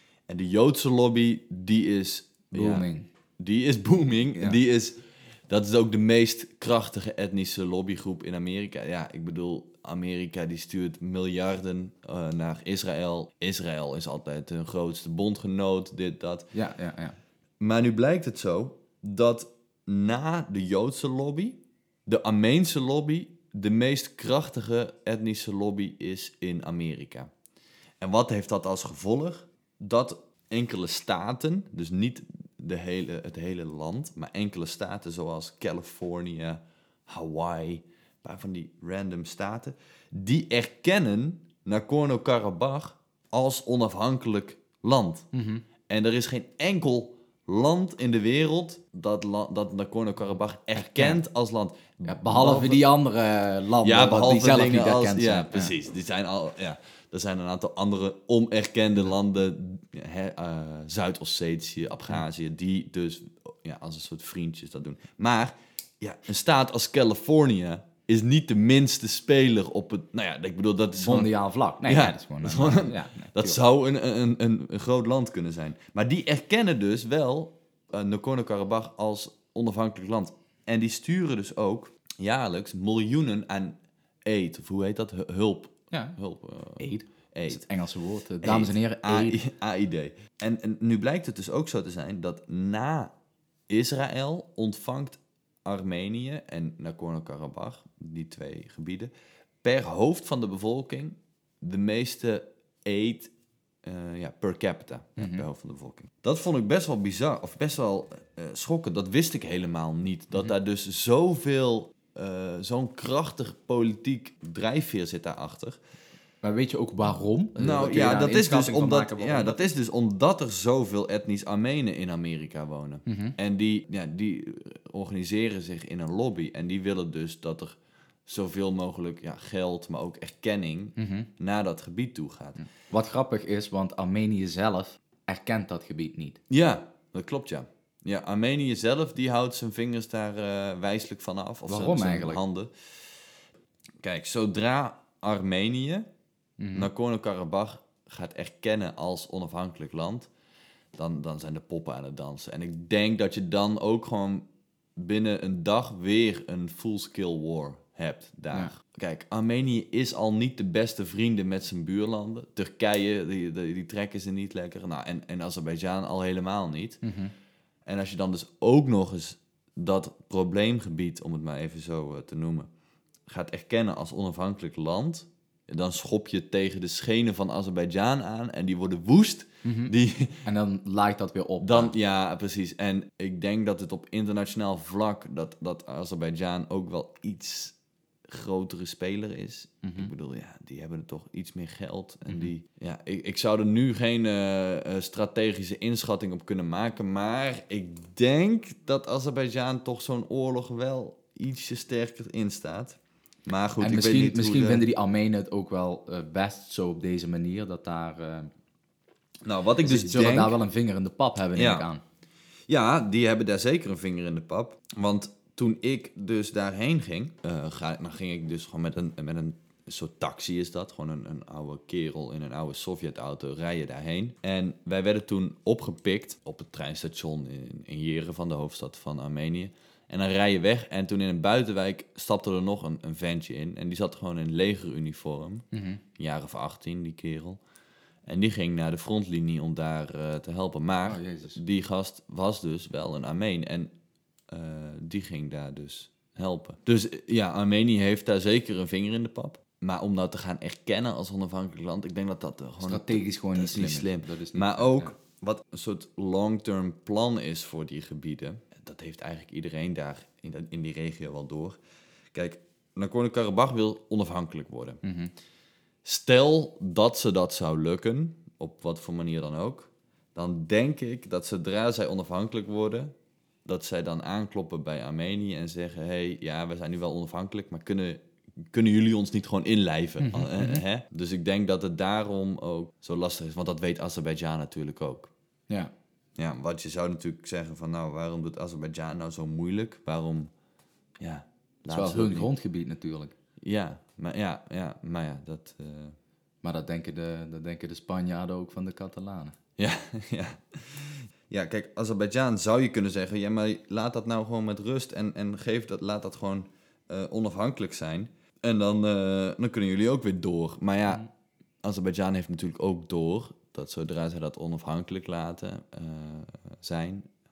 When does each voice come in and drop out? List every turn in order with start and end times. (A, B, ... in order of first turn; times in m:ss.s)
0:00.3-0:02.9 A
0:02.5-0:03.1 B
0:03.4-0:16.5 A
0:16.5-0:17.2 B
0:17.6-0:27.3 A
0:28.0-0:45.3 A
0:45.3-0:45.6 B
0:45.9-0:52.8 A
0:50.8-0:51.2 B
0:52.0-0:55.8 B
0:53.8-1:11.3 A
1:11.0-1:13.6 B
1:11.8-1:27.6 A
1:25.9-1:26.2 B
1:26.8-1:29.4 B
1:28.4-1:33.1 A
1:33.7-1:39.1 A
1:39.6-1:43.3 A
1:43.8-1:55.8 A
1:45.2-1:45.5 B
1:56.4-1:59.6 B
1:57.6-2:12.6 A
2:03.1-2:03.4 B
2:11.0-2:11.3 B
2:12.6-2:16.4 B
2:16.5-2:23.0 A
2:21.7-2:22.4 B
2:24.0-2:26.1 A
2:26.6-2:26.9 B
2:26.7-2:30.3 A
2:30.9-2:47.0 A
2:47.0-2:47.3 B
2:47.9-2:52.7 A
2:53.3-3:00.4 A
2:59.6-2:59.9 B
3:00.4-3:01.9 B
3:01.6-3:07.8 A
3:08.3-3:24.8 A
3:09.8-3:10.1 B
3:23.8-3:28.5 B
3:29.4-3:30.6 A
3:29.8-3:32.0 B
3:31.6-3:31.9 A
3:32.7-3:55.6 A
3:55.7-3:56.0 B
3:56.2-3:57.6 A
3:58.3-4:03.9 A
4:01.1-4:01.6 B
4:04.5-4:21.8 A
4:12.8-4:15.1 B
4:22.3-4:25.0 A
4:25.0-4:25.3 B
4:26.0-4:33.1 A
4:33.6-4:45.3 A
4:40.2-4:40.8 B
4:46.4-4:50.5 A
4:51.2-4:52.5 A
4:51.9-4:53.3 B
4:53.6-4:56.2 A
4:56.6-4:59.6 B
4:59.8-5:11.2 A
5:11.8-5:17.3 A